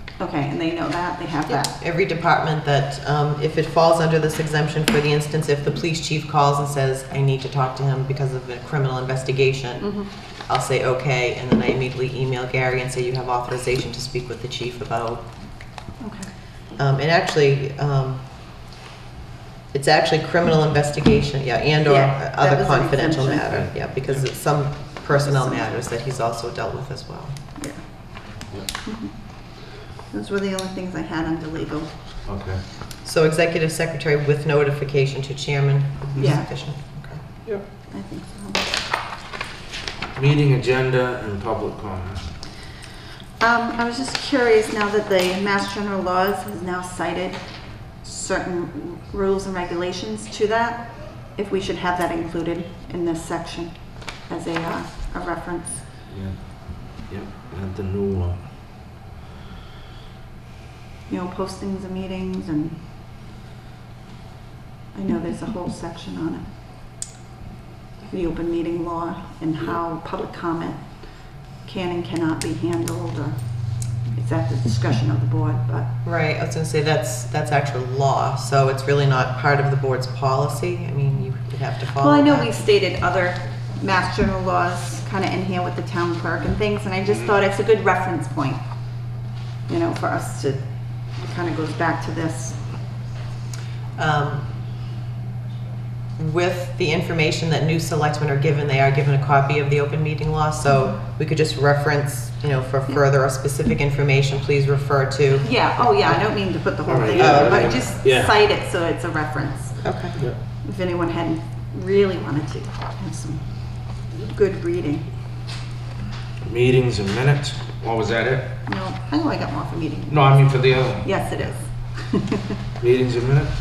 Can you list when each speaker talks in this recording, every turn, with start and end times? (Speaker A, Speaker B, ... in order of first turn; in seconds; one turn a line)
Speaker A: 0.2-1.8
Speaker B: 1.4-15.3
Speaker A: 9.8-10.1
Speaker A: 16.0-16.3
Speaker B: 16.8-18.3
Speaker B: 19.7-27.4
Speaker A: 21.9-23.6
Speaker C: 23.5-24.2
Speaker A: 25.2-25.6
Speaker A: 27.6-31.9
Speaker C: 32.2-32.6
Speaker B: 33.0-37.2
Speaker A: 36.2-36.5
Speaker A: 37.9-38.8
Speaker C: 40.2-42.3
Speaker A: 43.4-55.9
Speaker C: 56.1-58.5
Speaker A: 61.1-63.1
Speaker A: 64.9-67.0
Speaker A: 68.1-75.9
Speaker B: 76.0-82.6
Speaker A: 82.0-92.7
Speaker C: 87.0-87.3
Speaker B: 94.0-94.5
Speaker B: 96.2-105.9
Speaker A: 105.4-115.1
Speaker C: 106.8-108.3
Speaker B: 107.2-107.7
Speaker B: 109.8-110.2
Speaker C: 116.4-118.5
Speaker A: 118.7-122.5
Speaker C: 120.1-121.4
Speaker C: 122.8-123.5